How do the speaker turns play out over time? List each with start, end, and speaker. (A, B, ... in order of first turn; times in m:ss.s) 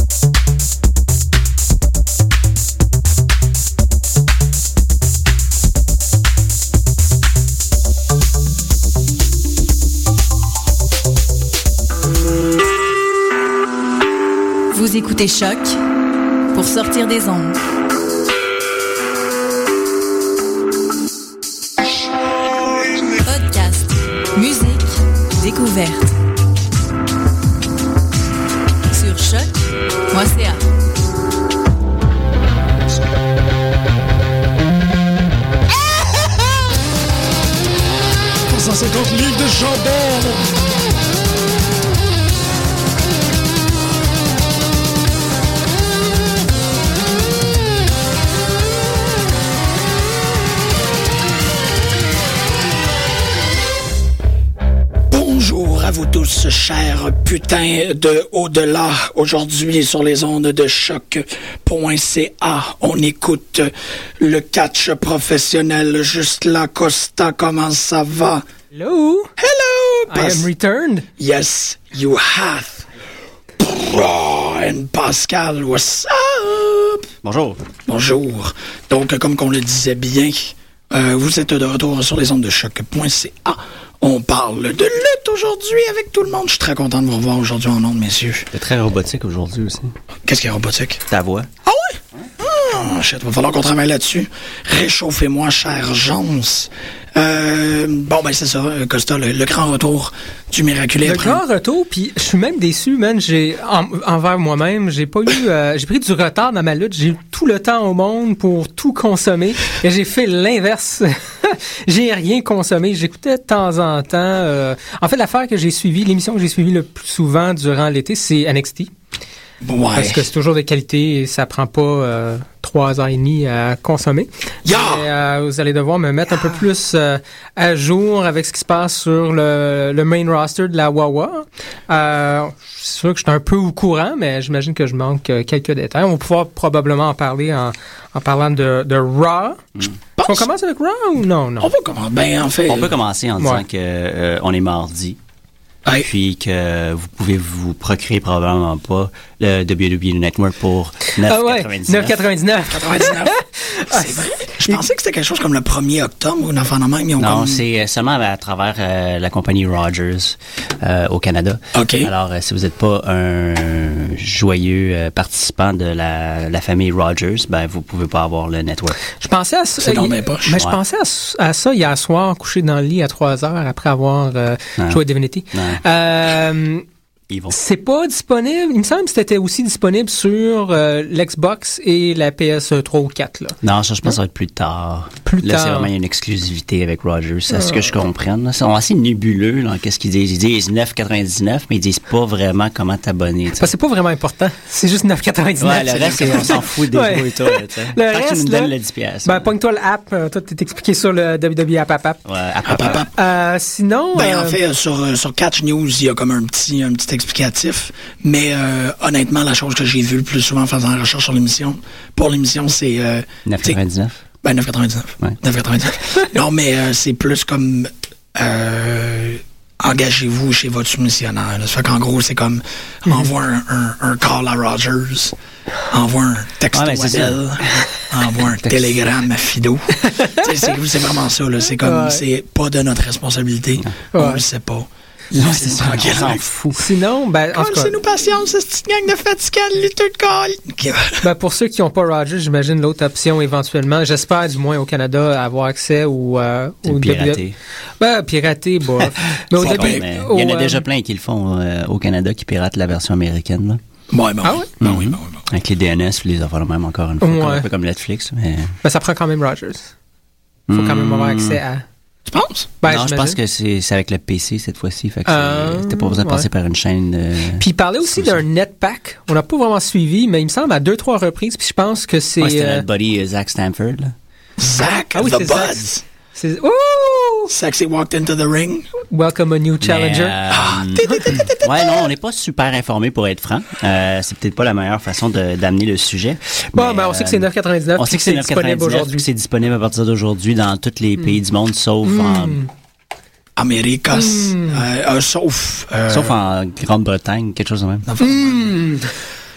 0:14.7-0:15.8 A
0:16.5-0:17.6 A
0:23.1-0:26.2 A
0:28.9-0:30.6 A
0:38.5-0:40.5 B
0:55.1-1:08.4 B
1:08.7-1:09.3 C
1:09.4-1:10.5 B
1:10.1-1:11.1 C
1:11.2-1:12.8 B
1:13.6-1:17.1 B
1:17.2-1:17.6 D
1:17.9-1:28.5 B
1:28.5-1:29.9 D
1:30.2-1:31.0 B
1:31.1-1:31.5 D
1:31.6-1:41.4 B
1:41.0-1:58.9 C
1:59.6-2:00.3 B
1:59.9-2:19.7 C
2:04.6-2:05.1 B
2:20.2-2:20.5 B
2:20.2-2:21.7 C
2:21.6-2:22.9 B
2:22.7-2:25.2 D
2:23.4-2:23.6 C
2:26.0-2:32.2 D
2:31.2-2:34.8 C
2:32.7-2:37.6 B
2:37.2-2:49.0 D
2:41.7-2:42.1 B
2:49.2-2:56.8 C
2:49.8-2:50.6 B
2:54.8-2:55.8 D
2:57.3-2:57.6 D
2:57.5-3:04.2 C
3:03.6-3:13.7 D
3:05.3-3:05.9 C
3:07.5-3:07.9 C
3:13.6-3:18.7 C
3:15.6-3:19.5 D
3:16.0-3:16.6 B
3:19.2-3:22.2 C
3:22.2-3:23.0 D
3:22.7-3:23.1 B
3:22.9-3:24.6 C
3:24.1-3:33.8 B
3:33.4-3:34.2 D
3:34.4-3:45.4 B
3:45.9-3:56.4 B
3:46.7-3:47.9 D
3:50.1-3:50.5 C
3:51.8-3:52.2 C
3:54.1-3:54.4 C
3:55.4-3:56.9 D
3:56.7-3:58.0 C
3:57.5-4:01.3 B
4:01.2-4:07.4 C
4:06.9-4:07.6 D
4:08.0-4:10.8 C
4:09.0-4:13.8 D
4:09.6-4:10.0 B
4:14.1-4:15.4 B
4:14.4-4:14.7 C
4:14.8-4:18.8 D
4:17.2-4:17.7 C
4:18.8-4:19.9 C
4:20.7-4:21.6 D
4:20.7-4:21.8 C
4:22.2-4:22.7 B
4:22.8-4:23.4 C
4:22.8-4:28.4 D
4:25.2-4:26.4 C
4:27.6-4:32.8 C
4:32.4-4:34.1 D
4:34.6-4:36.0 B
4:35.1-4:37.5 C
4:37.5-4:38.9 B
4:39.1-4:40.4 C
4:39.8-4:52.6 D
4:40.5-4:42.1 B
4:41.0-4:41.5 C
4:46.8-4:49.2 C
4:52.0-4:52.7 C
4:53.6-4:56.4 B
4:54.1-4:54.8 C
4:56.1-4:58.1 D
4:58.1-4:58.8 B
4:58.2-4:59.1 C